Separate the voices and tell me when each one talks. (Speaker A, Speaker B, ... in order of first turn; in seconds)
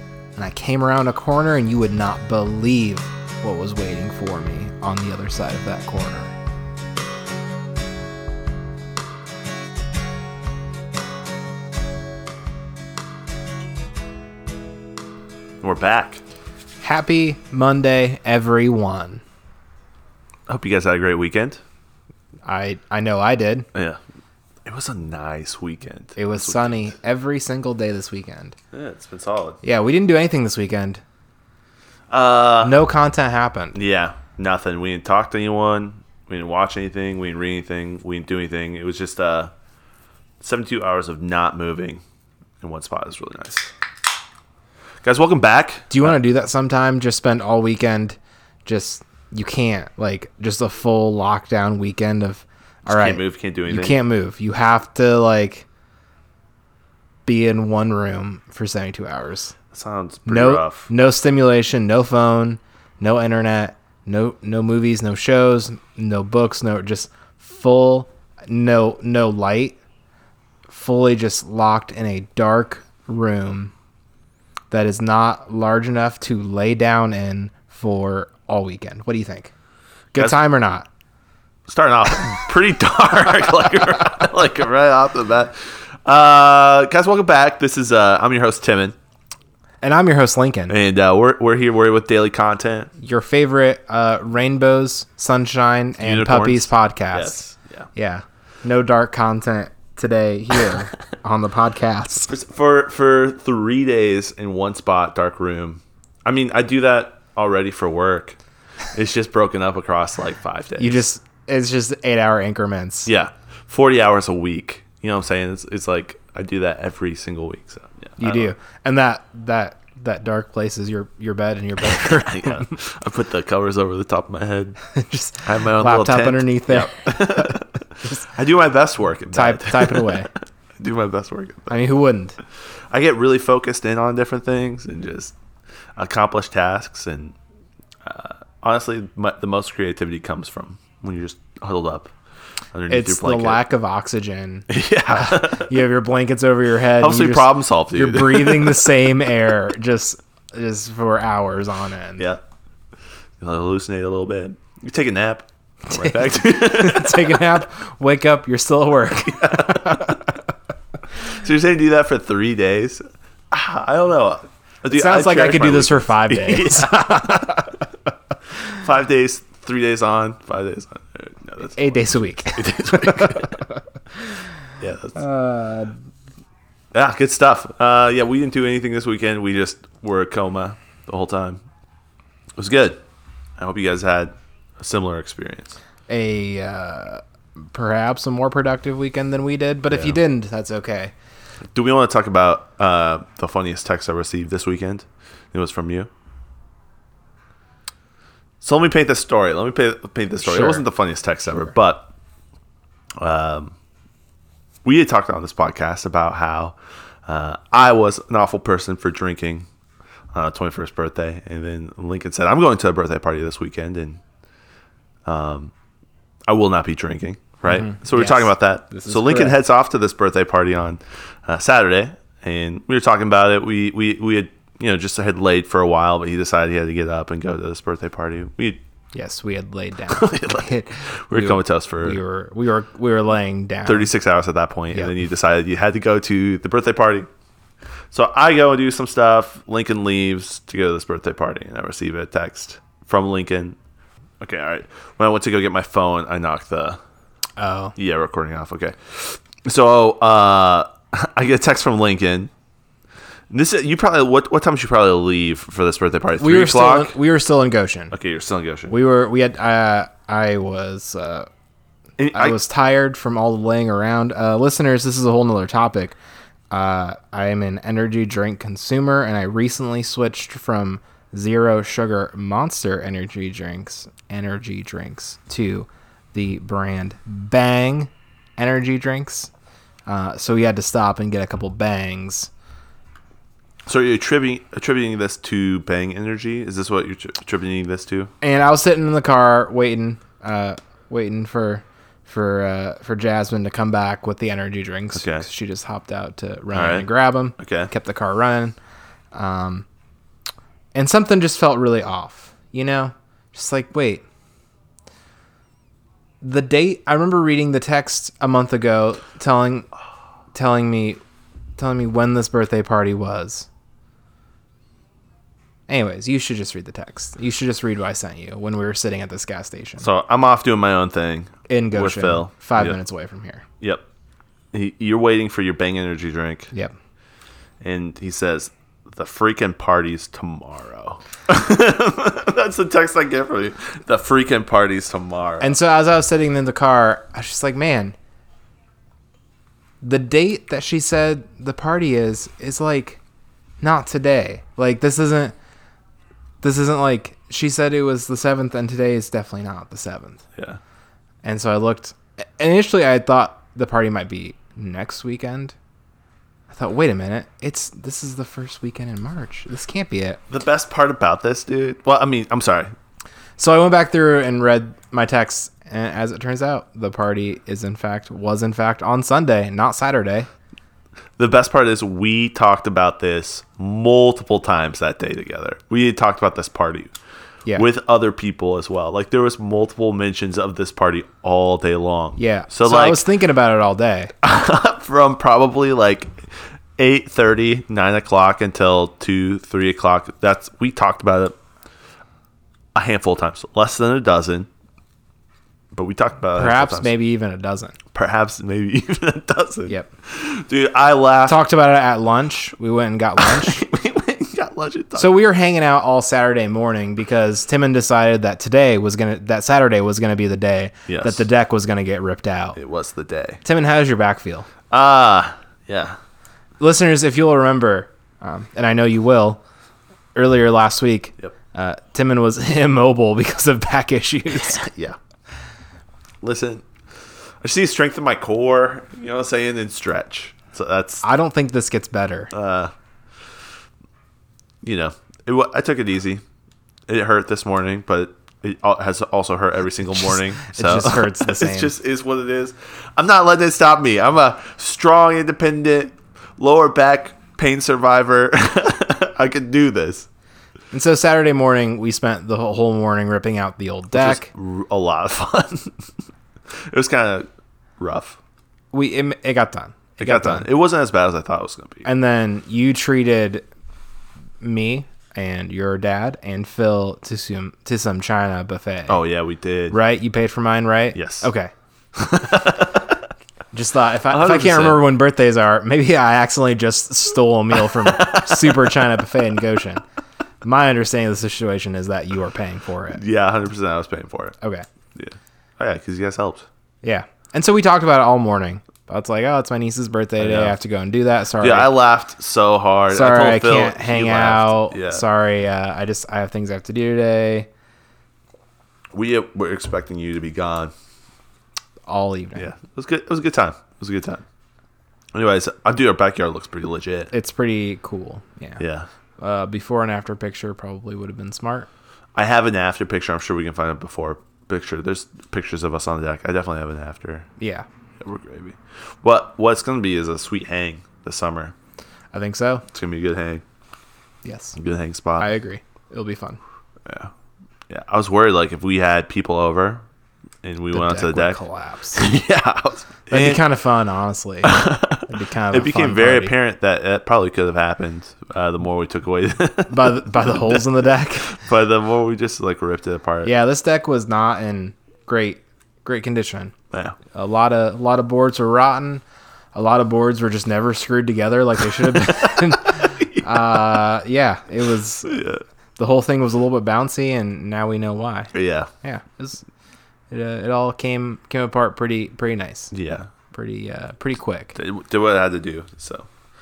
Speaker A: 0.3-6.3, 16.8-19.2, 22.5-23.7, 26.2-28.6, 29.6-31.0, 32.6-33.8, 45.9-55.7, 57.3-59.5, 60.3-69.8, 70.7-73.7, 74.7-79.5, 80.1-80.9, 89.8-90.8, 93.0-97.4, 98.0-102.3, 110.8-113.1, 118.2-122.8, 124.9-128.2, 129.3-130.3, 131.7-132.4, 142.9-152.3, 155.9-160.3, 164.9-167.8, 171.8-173.6, 175.2-175.9, 186.1-191.1, 200.4-200.8, 217.7-219.6, 229.1-234.1, 247.6-247.9, 256.4-258.1, 258.9-261.5, 262.3-266.1, 266.7-279.5, 280.1-282.5, 288.4-298.8, 299.3-299.9, 300.9-304.2, 306.4-309.9, 310.5-311.2, 311.8-313.7, 315.9-320.1, 321.7-323.6, 335.6-338.1, 340.0-343.2, 343.8-345.5, 346.6-350.4, 351.4-355.7, 356.7-360.4, 363.6-370.5, 382.4-384.3, 396.5-398.0, 401.4-403.8, 405.2-412.8, 413.6-414.7, 416.8-419.6, 420.3-424.8, 431.2-432.5, 440.3-441.9, 450.9-454.5, 458.9-460.7, 462.0-463.6, 464.6-469.2, 469.9-471.7, 473.7-480.0, 480.6-483.2, 487.0-491.9, 493.1-497.7, 502.1-502.7, 507.3-508.8, 509.4-511.9, 517.6-517.9, 522.3-522.8, 524.4-524.8, 525.4-526.6, 530.9-532.2, 533.3-536.5, 539.9-541.5, 543.4-546.7, 547.3-549.2, 549.7-555.4, 556.0-559.6, 560.3-562.9, 563.5-564.8
Speaker B: 15.6-16.2, 20.5-21.6, 23.7-24.0, 24.7-26.9, 28.7-29.6, 32.1-32.8, 33.7-39.5, 40.4-42.0, 42.6-43.7, 45.0-46.1, 52.9-54.0, 59.7-60.9, 81.7-89.0, 90.7-92.9, 96.0-97.9, 102.3-108.4, 108.9-111.0, 113.1-118.5, 121.8-124.8, 125.4-131.8, 132.9-135.3, 136.0-137.3, 138.0-142.1, 142.7-143.6, 144.7-145.8, 147.0-149.1, 153.4-157.5, 159.3-160.2, 161.2-167.7, 168.6-173.6, 174.8-175.2, 176.9-181.6, 182.6-183.0, 183.6-185.8, 189.9-190.2, 191.7-196.1, 198.6-202.1, 203.2-203.8, 204.8-209.7, 210.3-214.2, 215.2-215.7, 216.5-228.8, 230.1-232.2, 233.8-237.3, 238.1-243.8, 244.4-247.0, 248.0-252.5, 253.5-257.1, 258.1-258.9, 262.2-262.6, 283.9-288.3, 295.1-295.5, 296.7-297.9, 320.0-323.0, 324.7-326.7, 327.8-335.8, 360.5-362.9, 371.4-377.1, 377.7-383.2, 384.4-386.4, 387.0-391.6, 392.9-394.7, 395.9-397.1, 398.1-401.6, 403.4-405.3, 411.1-411.4, 412.8-413.6, 414.9-416.2, 424.5-425.2, 426.4-426.9, 427.6-431.2, 432.5-432.9, 434.8-436.4, 437.1-450.3, 454.1-456.0, 456.7-457.5, 458.0-458.4, 460.2-462.1, 469.1-470.0, 471.1-471.5, 472.1-473.2, 474.3-475.0, 477.8-479.0, 483.1-484.6, 485.1-486.7, 490.4-490.7, 491.6-495.2, 499.1-500.9, 502.6-504.4, 505.3-507.3, 508.8-509.1, 512.4-517.5, 518.2-521.7, 522.9-523.6, 524.8-525.5, 527.0-527.3, 527.9-530.0, 530.6-531.6, 532.1-533.6, 534.6-540.9, 541.5-543.5, 546.9-547.1, 552.0-553.9, 555.2-555.6, 558.5-558.9, 562.9-563.3, 564.8-566.3